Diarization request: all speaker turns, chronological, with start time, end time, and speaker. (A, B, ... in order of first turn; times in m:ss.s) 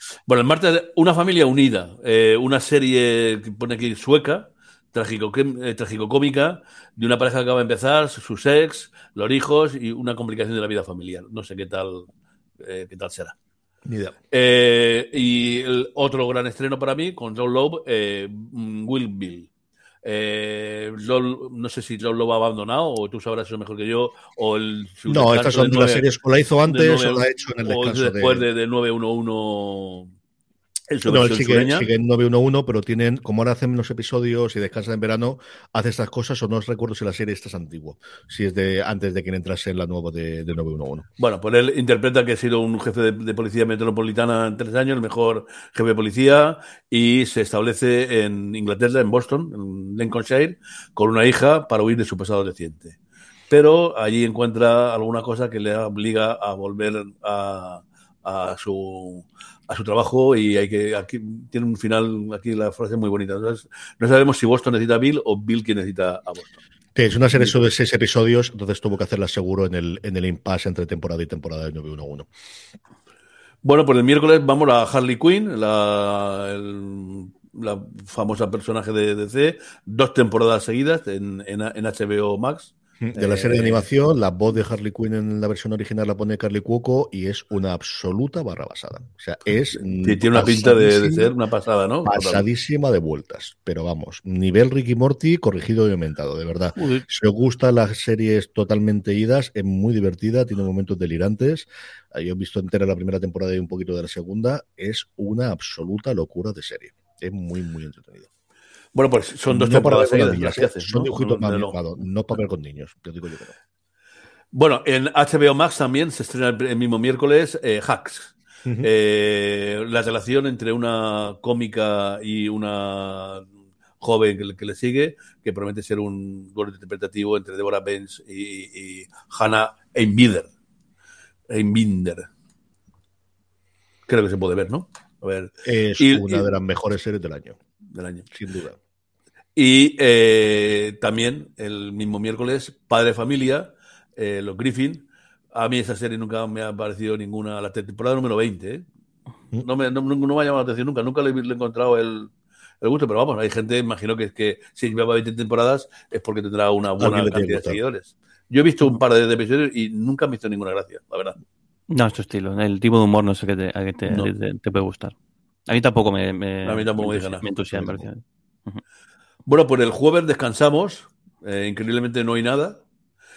0:00.3-0:12.1 A
0:12.6-0:13.4 A
0:13.8-0:14.2 B
0:14.3-0:19.5 A
0:20.0-0:26.1 A
0:25.1-0:28.4 B
0:26.6-0:30.1 A
0:30.9-0:31.9 A
0:31.0-0:41.1 B
0:41.2-0:53.0 A
0:53.5-1:06.6 A
1:07.0-1:12.3 B
1:13.6-1:23.9 A
1:23.0-1:31.3 B
1:30.0-1:32.4 A
1:32.0-1:48.3 B
1:36.8-1:37.0 A
1:48.9-1:51.8 A
1:49.5-1:53.6 B
1:54.5-2:03.5 A
2:04.0-2:10.5 A
2:11.5-2:12.3 A
2:14.1-2:16.5 A
2:15.6-2:17.6 B
2:17.9-2:18.3 A
2:18.3-2:18.8 B
2:19.6-2:28.8 A
2:29.6-2:41.4 A
2:37.0-2:37.8 B
2:41.9-2:45.1 C
2:45.7-2:48.8 C
2:46.6-2:47.8 A
2:49.5-2:52.8 A